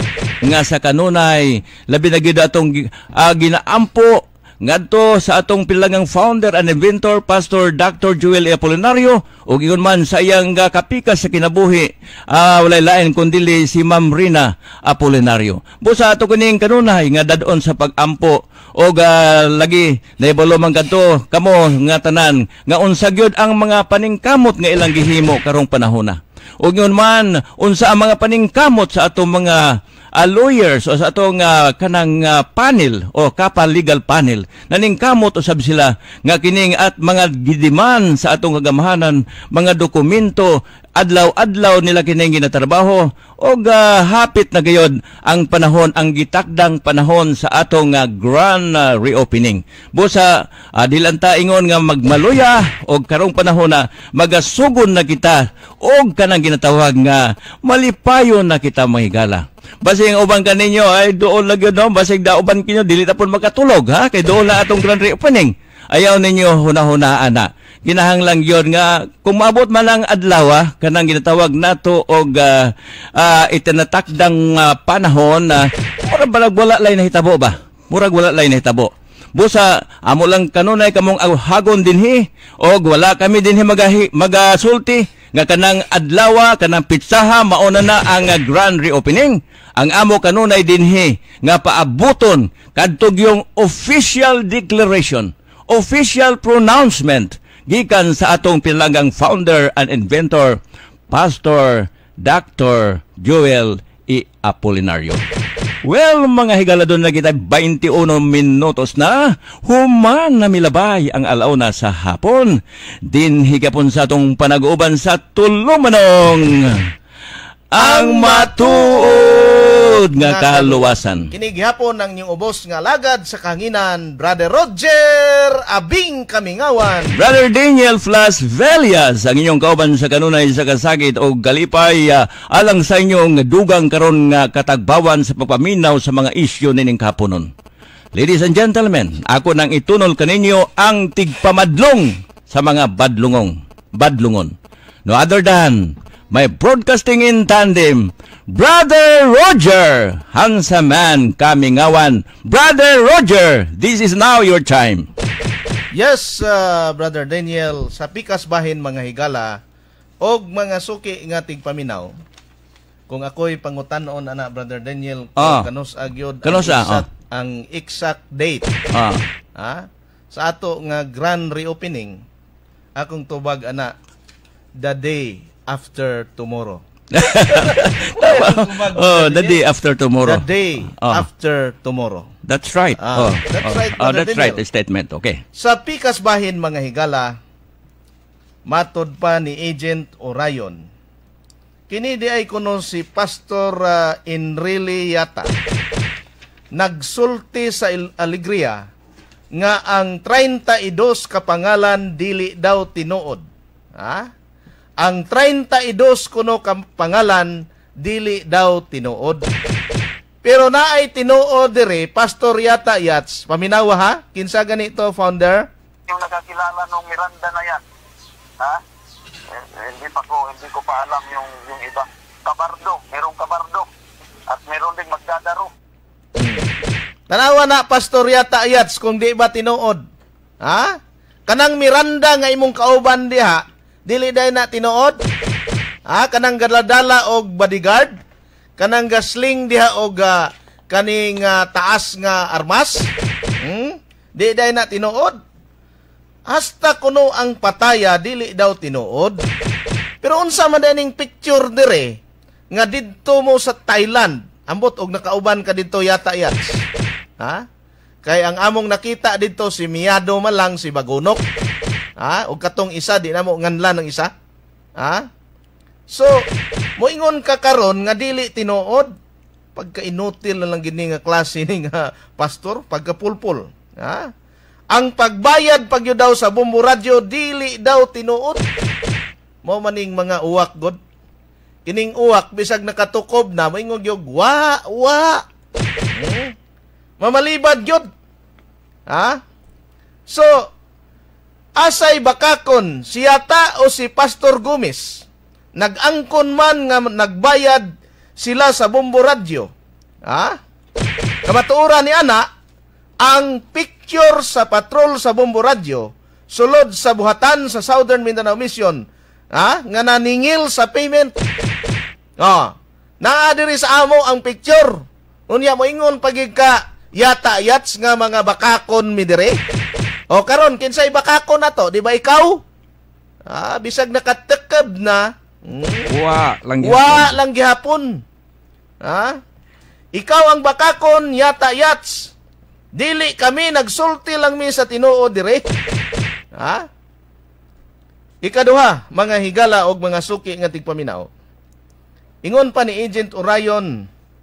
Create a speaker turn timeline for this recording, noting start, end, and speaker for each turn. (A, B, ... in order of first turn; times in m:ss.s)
0:00.4-1:45.2 A
1:45.8-1:56.8 A
1:57.7-2:01.3 A
1:57.8-1:59.5 B
2:00.2-2:07.2 B
2:07.2-2:17.5 A
2:18.1-2:24.5 A
2:25.0-2:35.1 A
2:35.9-2:39.6 B
2:40.2-2:42.1 B
2:43.1-2:48.6 B
2:45.4-2:45.7 A
2:46.4-2:47.0 A
2:48.9-2:49.2 A
2:49.6-2:52.2 B
2:53.0-2:53.9 B
2:54.8-2:59.6 B
2:57.1-3:00.4 A
3:00.2-3:02.2 B
3:01.0-3:01.2 A
3:02.5-3:05.4 A
3:03.0-3:04.6 B
3:05.5-3:07.3 B
3:08.7-3:10.8 B
3:11.9-3:15.5 B
3:16.7-3:18.8 B
3:19.5-3:23.4 B
3:23.9-3:24.2 B
3:25.0-3:29.4 B
3:30.4-3:35.6 B
3:36.1-3:37.8 C
3:39.5-3:43.9 C
3:44.5-3:45.7 C
3:46.4-3:46.7 B
3:47.3-3:50.0 B
3:50.6-3:50.9 B
3:51.5-3:55.2 B
3:56.1-3:58.1 B
3:58.8-4:03.1 B
4:03.6-4:05.4 B
4:06.5-4:09.4 B
4:10.2-4:12.2 B
4:12.7-4:16.8 B
4:17.4-4:17.6 B
4:18.2-4:21.4 B
4:22.2-4:24.3 B
4:25.0-4:25.2 B
4:26.1-4:26.4 B
4:27.0-4:29.1 B
4:29.8-4:34.3 B
4:34.9-4:38.6 B
4:39.6-4:41.0 B
4:41.8-4:45.4 B
4:46.1-4:46.5 B
4:47.2-4:48.0 B
4:49.1-4:49.4 B
4:50.3-4:50.6 B
4:51.8-4:55.2 B
4:55.8-4:57.8 B
4:58.4-4:59.7 B
5:00.3-5:00.6 B
5:01.4-5:02.4 B
5:03.2-5:09.0 B
5:09.5-5:11.3 B
5:12.4-5:19.6 B
5:20.3-5:22.6 B
5:23.5-5:26.1 B
5:26.1-5:27.4 A
5:26.8-5:28.2 B
5:29.0-5:29.4 B
5:30.1-5:32.3 B
5:32.9-5:35.6 B
5:36.6-5:36.8 B
5:38.4-5:41.3 B
5:42.4-5:44.0 B